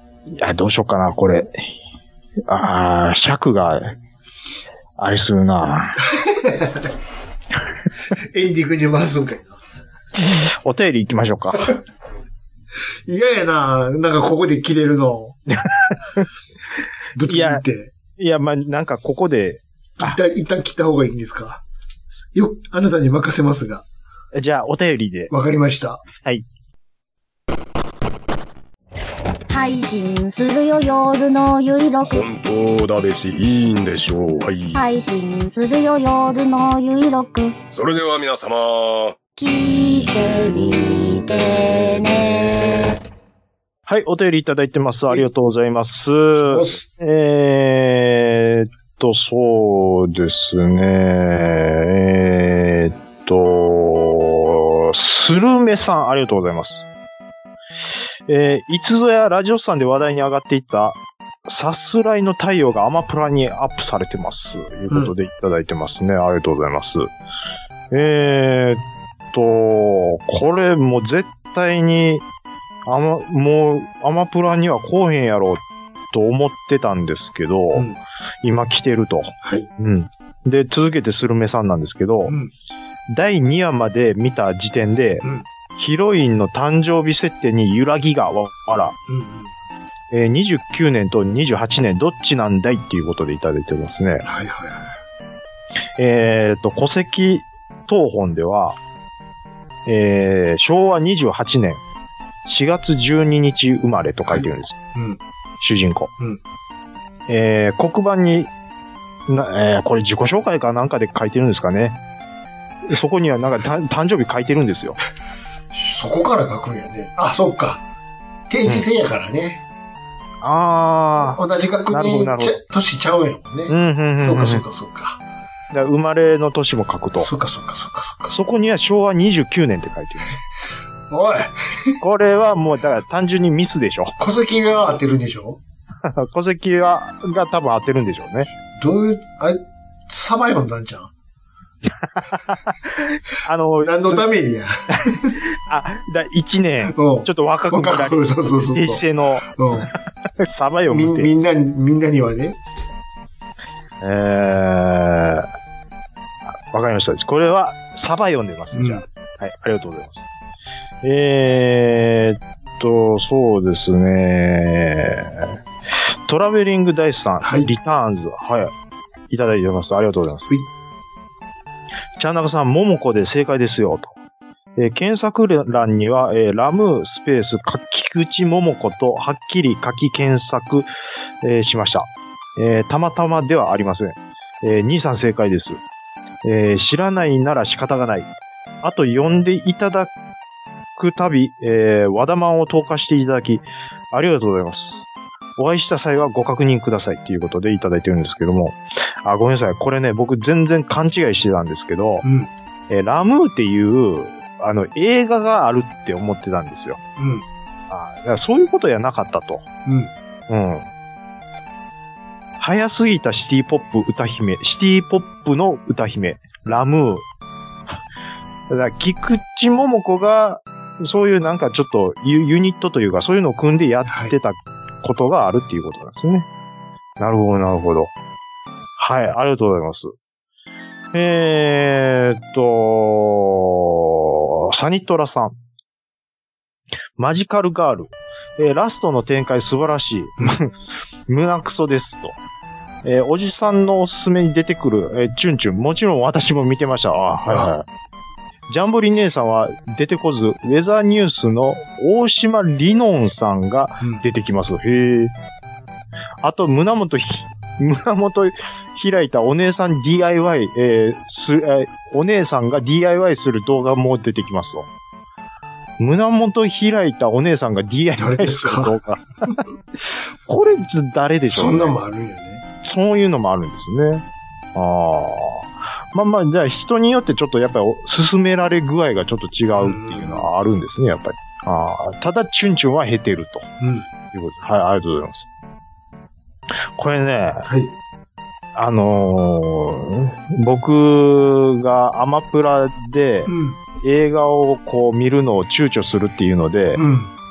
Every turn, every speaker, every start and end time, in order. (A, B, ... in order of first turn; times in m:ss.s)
0:00.3-0:01.6 A
0:02.5-0:04.0 A
0:05.0-0:06.0 A
0:06.1-0:06.9 B
0:08.2-0:09.6 B
0:10.2-0:11.8 A
0:13.1-0:15.4 B
0:15.5-0:16.2 A
0:17.2-0:17.9 B
0:17.3-0:17.6 A
0:18.2-0:20.2 A
0:20.0-0:21.6 B
0:22.3-0:23.8 B
0:24.3-0:25.3 A
0:25.3-0:26.0 B
0:29.5-0:32.2 C
0:32.0-0:34.8 D
0:34.7-0:37.6 C
0:37.7-0:39.2 D
0:39.4-0:42.9 C
0:43.9-0:56.8 A
0:46.4-0:46.9 B
0:58.3-1:07.1 A
1:07.9-1:08.8 A
1:09.3-1:12.2 A
1:12.8-1:15.6 A
1:16.1-1:17.8 A
1:18.4-1:22.3 A
1:23.1-1:25.2 A
1:25.8-1:29.0 A
1:29.1-1:29.5 B
1:30.1-1:34.2 A
1:34.2-1:34.9 B
1:36.0-1:38.8 A
1:39.8-1:41.8 A
1:42.4-1:44.8 A
1:44.2-1:45.2 B
1:45.6-1:46.1 A
1:47.3-1:48.5 A
1:49.3-1:52.0 A
1:52.9-1:55.0 A
1:55.7-1:57.8 B
1:58.5-1:59.6 B
2:00.4-2:02.6 A
2:01.2-2:05.2 B
2:03.7-2:04.6 A
2:05.7-2:07.3 A
2:07.2-2:08.3 B
2:08.3-2:10.4 A
2:11.1-2:12.0 B
2:12.0-2:14.1 A
2:14.2-2:15.6 B
2:16.0-2:18.5 A
2:18.7-2:21.1 B
2:22.1-2:24.2 A
2:23.8-2:25.3 B
2:25.7-2:29.5 A
2:26.9-2:29.9 B
2:30.4-2:31.3 A
2:30.9-2:32.6 B
2:34.0-2:35.5 A
2:36.7-2:40.2 A
2:38.7-2:39.0 B
2:41.0-2:45.6 A
2:46.3-2:48.7 A
2:47.4-2:47.7 B
2:49.3-2:50.6 A
2:52.2-2:54.1 A
2:54.8-3:00.9 A
3:01.4-3:05.8 A
3:06.4-3:08.3 A
3:08.8-3:10.1 A
3:11.0-3:15.0 A
3:15.6-3:22.2 A
3:22.2-3:22.5 B
3:22.9-3:27.0 A
3:27.2-3:27.4 B
3:27.9-3:29.6 A
3:29.8-3:30.1 B
3:30.5-3:30.8 A
3:32.6-3:37.2 A
3:38.7-3:46.4 A
3:44.1-3:44.3 B
3:47.2-3:48.1 A
3:49.0-3:50.1 A
3:51.1-3:55.5 A
3:57.2-4:00.7 A
4:01.3-4:02.4 A
4:03.0-4:07.8 A
4:07.5-4:07.7 B
4:08.7-4:15.3 A
4:16.4-4:24.8 A
4:26.0-4:29.5 A
4:28.2-4:29.0 B
4:30.4-4:31.9 A
4:31.4-4:32.6 B
4:32.8-4:43.7 A
4:39.8-4:40.5 B
4:43.8-4:44.0 B
4:44.3-4:45.4 A
4:47.0-4:47.6 A
4:47.6-4:47.9 B
4:48.7-4:57.0 A
4:53.4-4:53.8 B
4:56.9-4:57.3 B